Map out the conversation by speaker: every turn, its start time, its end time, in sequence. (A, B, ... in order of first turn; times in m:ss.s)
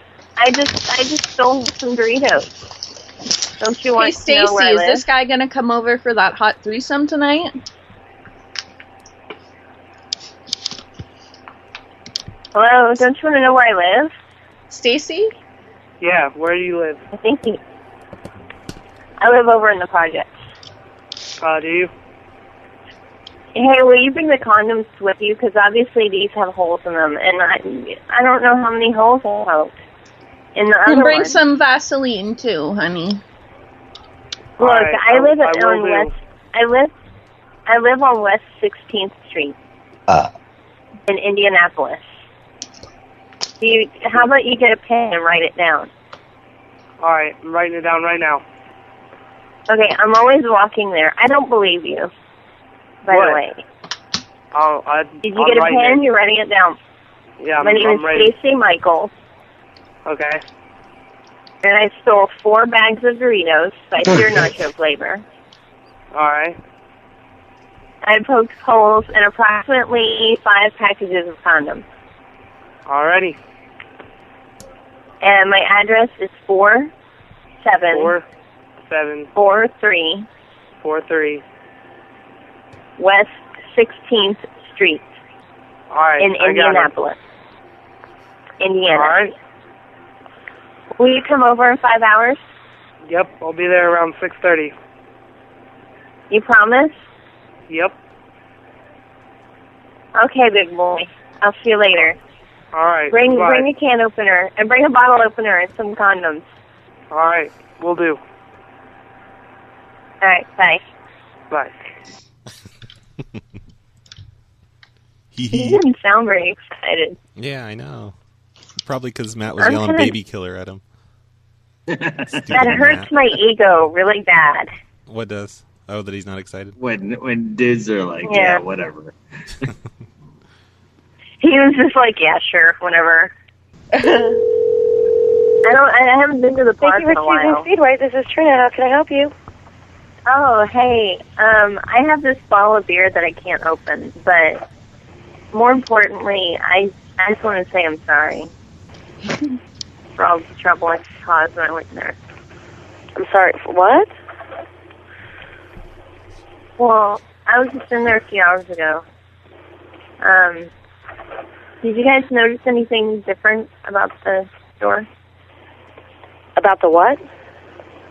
0:00.4-0:02.5 A
0:03.6-0:05.0 A
0:04.0-0:07.5 B
0:12.5-0:14.1 A
0:14.7-0:15.3 B
0:16.0-0:17.0 C
0:17.1-0:17.6 A
0:19.2-0:20.3 A
0:21.4-0:21.9 C
0:23.5-0:29.8 A
0:30.5-0:31.4 A
0:30.9-0:33.2 B
0:34.6-0:36.1 C
0:34.6-0:36.9 A
0:37.7-0:39.6 A
0:41.1-0:42.1 A
0:43.6-0:45.9 A
0:47.0-0:48.4 C
0:49.7-0:52.1 A
0:53.0-0:53.6 A
0:53.1-0:53.4 C
0:54.5-0:56.0 C
0:55.2-0:56.8 A
0:57.4-0:58.3 C
0:57.6-0:59.1 A
1:00.0-1:00.4 C
1:01.6-1:05.2 A
1:06.1-1:06.6 C
1:08.0-1:11.8 A
1:12.9-1:13.4 C
1:15.2-1:16.9 A
1:17.6-1:18.1 A
1:17.9-1:18.2 C
1:18.8-1:19.3 C
1:19.4-1:20.3 A
1:20.8-1:21.4 C
1:23.0-1:25.1 A
1:25.9-1:26.9 C
1:26.2-1:27.2 A
1:28.6-1:29.2 A
1:28.9-1:29.3 C
1:31.0-1:32.4 A
1:33.0-1:34.7 C
1:36.3-1:37.0 A
1:37.7-1:37.9 C
1:40.2-1:42.2 A
1:42.7-1:43.7 C
1:43.1-1:46.4 A
1:47.1-1:48.2 C
1:50.2-1:50.8 A
1:55.3-1:55.8 D
1:55.5-1:57.2 A
1:57.4-1:58.1 D
1:58.8-2:00.8 D
1:59.6-2:00.1 A
2:02.0-2:02.2 E
2:02.3-2:03.1 D
2:02.5-2:04.7 A
2:05.1-2:06.7 D
2:06.8-2:09.1 E
2:08.3-2:08.6 A
2:11.4-2:13.3 A
2:14.0-2:14.3 B
2:15.6-2:17.7 A
2:16.8-2:19.3 F
2:20.3-2:24.6 A
2:25.5-2:28.5 A
2:30.2-2:32.2 A
2:33.2-2:34.1 F
2:36.8-2:39.0 A
2:40.2-2:40.7 A
2:41.8-2:45.1 A
2:46.6-2:47.2 F